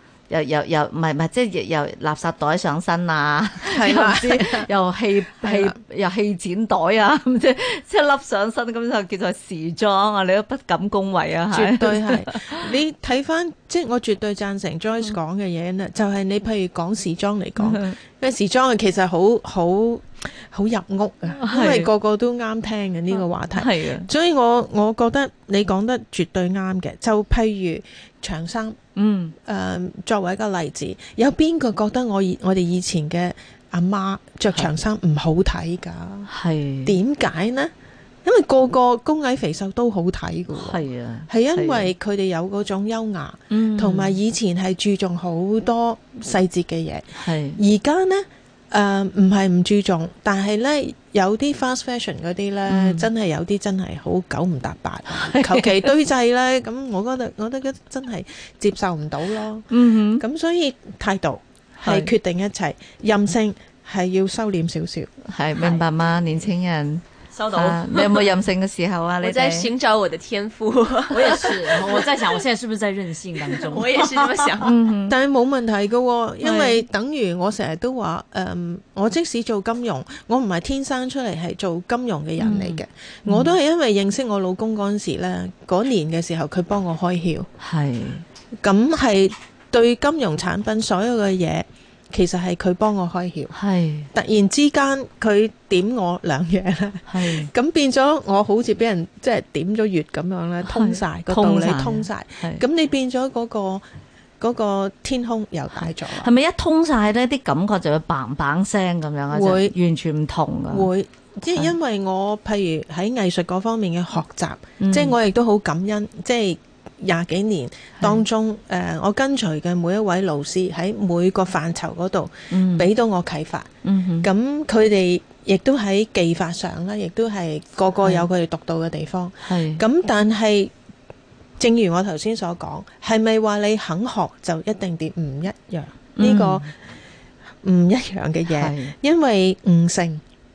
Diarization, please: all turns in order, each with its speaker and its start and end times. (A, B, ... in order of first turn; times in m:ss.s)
0:00.3-0:12.6 A
0:03.7-0:04.7 B
0:05.4-0:05.8 B
0:11.5-0:28.8 B
0:17.6-0:18.0 A
0:21.3-0:21.9 A
0:23.1-0:24.1 A
0:29.0-0:29.3 A
0:29.4-0:36.3 B
0:36.3-0:37.0 A
0:36.8-0:37.7 B
0:38.2-1:05.1 B
0:40.5-0:41.9 A
0:43.5-0:44.2 A
0:47.2-0:47.6 A
0:52.7-0:53.1 A
0:55.2-0:55.9 A
0:59.7-1:00.2 A
1:01.8-1:02.1 A
1:05.3-1:09.7 A
1:05.6-1:05.8 C
1:07.3-1:08.3 C
1:09.2-1:12.4 D
1:11.1-1:14.5 C
1:13.5-1:14.8 D
1:14.6-1:15.2 A
1:15.1-1:27.5 B
1:16.4-1:16.8 A
1:22.4-1:23.5 A
1:27.6-1:28.2 A
1:28.6-1:33.5 B
1:33.5-1:34.1 A
1:34.1-1:43.8 B
1:37.1-1:37.5 A
1:40.6-1:42.6 A
1:44.4-1:46.3 B
1:45.8-1:50.9 A
1:49.3-1:49.7 B
1:50.7-2:03.7 B
1:54.8-1:55.1 A
2:02.5-2:02.9 A
2:03.8-2:04.3 A
2:04.2-2:10.7 B
2:08.0-2:08.3 A
2:09.4-2:09.8 A
2:11.6-2:16.7 B
2:16.2-2:16.6 A
2:17.6-2:20.2 B
2:18.5-2:18.9 A